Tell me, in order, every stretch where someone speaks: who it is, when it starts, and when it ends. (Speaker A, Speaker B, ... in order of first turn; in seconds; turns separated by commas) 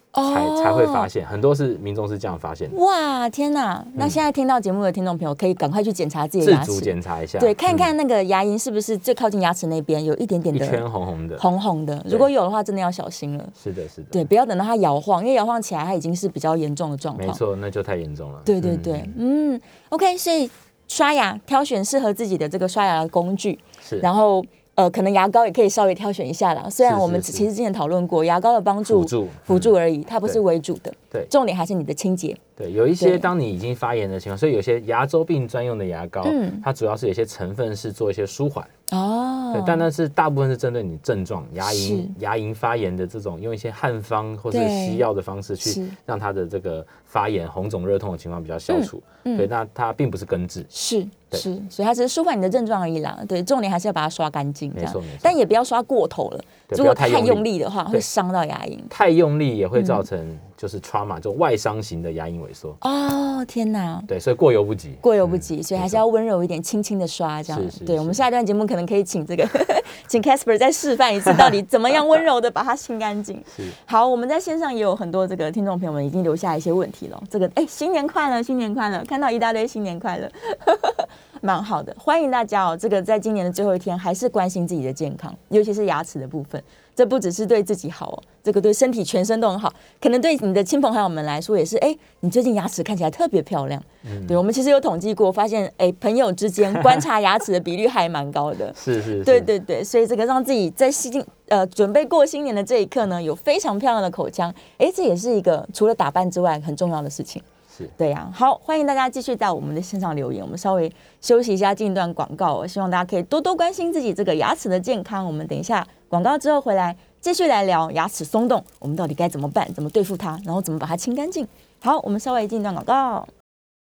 Speaker A: 0.1-1.1, Speaker B: 0.3-2.8, Speaker A: 2.7-10.8, Speaker B: 6.4-7.9, Speaker B: 10.5-11.4, Speaker A: 11.4-13.5, Speaker B: 13.6-14.2, Speaker A: 14.1-17.4, Speaker B: 17.2-19.2, Speaker A: 18.5-32.4, Speaker B: 23.8-24.1, Speaker B: 26.8-27.5, Speaker B: 28.9-29.7, Speaker B: 32.6-38.7, Speaker A: 33.0-33.3, Speaker A: 36.2-36.6, Speaker A: 38.9-39.9, Speaker B: 39.5-50.7, Speaker A: 41.6-42.2, Speaker A: 44.5-45.0, Speaker A: 45.6-46.0, Speaker A: 48.7-49.5, Speaker A: 50.7-58.9, Speaker B: 54.7-55.4, Speaker B: 56.7-58.1, Speaker B: 58.9-62.8, Speaker A: 59.8-60.0, Speaker A: 62.8-64.1, Speaker B: 64.1-66.0, Speaker A: 65.0-107.4, Speaker B: 67.5-68.2, Speaker B: 71.3-71.6, Speaker B: 94.0-94.4, Speaker B: 98.8-99.5, Speaker A: 108.0-123.3